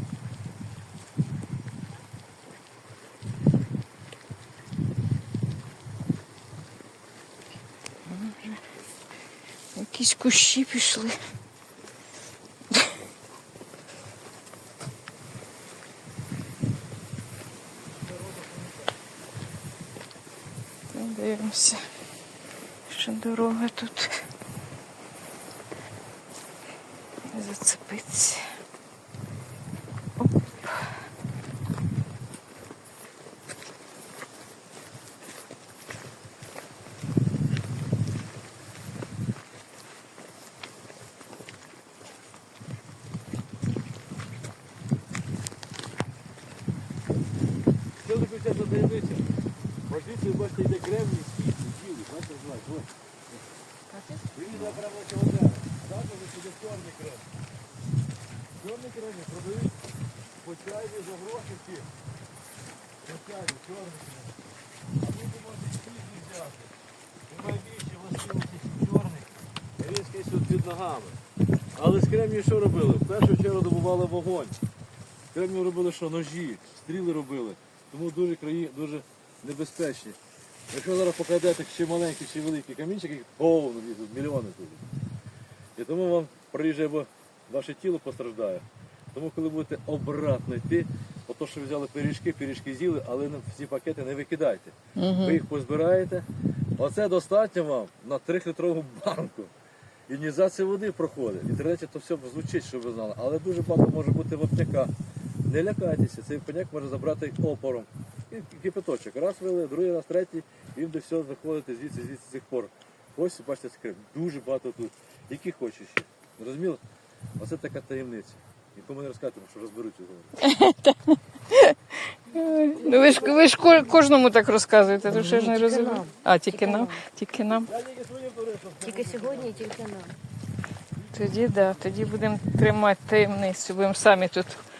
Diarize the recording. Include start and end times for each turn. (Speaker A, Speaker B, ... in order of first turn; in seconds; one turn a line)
Speaker A: 8.1-8.6
Speaker A: 9.8-11.2
Speaker B: 18.1-18.7
Speaker A: 20.9-21.8
Speaker A: 22.9-24.2
Speaker A: 27.3-28.4
Speaker A: 30.2-30.8
Speaker B: 48.0-49.3
Speaker B: 49.9-53.4
Speaker B: 54.3-57.3
Speaker B: 58.6-59.8
Speaker B: 60.4-61.9
Speaker B: 63.1-64.3
Speaker B: 65.0-66.7
Speaker B: 67.3-71.2
Speaker B: 71.8-74.6
Speaker B: 75.3-80.2
Speaker B: 80.7-84.9
Speaker B: 85.8-96.3
Speaker A: 95.0-95.4
Speaker B: 96.8-99.5
Speaker B: 100.1-104.9
Speaker B: 105.5-116.8
Speaker B: 117.4-120.4
Speaker A: 120.4-121.8
Speaker A: 122.3-127.7
Speaker B: 122.3-124.0
Speaker C: 125.1-127.0
Speaker B: 127.5-129.8
Speaker C: 128.8-130.2
Speaker B: 130.9-132.3
Speaker A: 131.1-134.6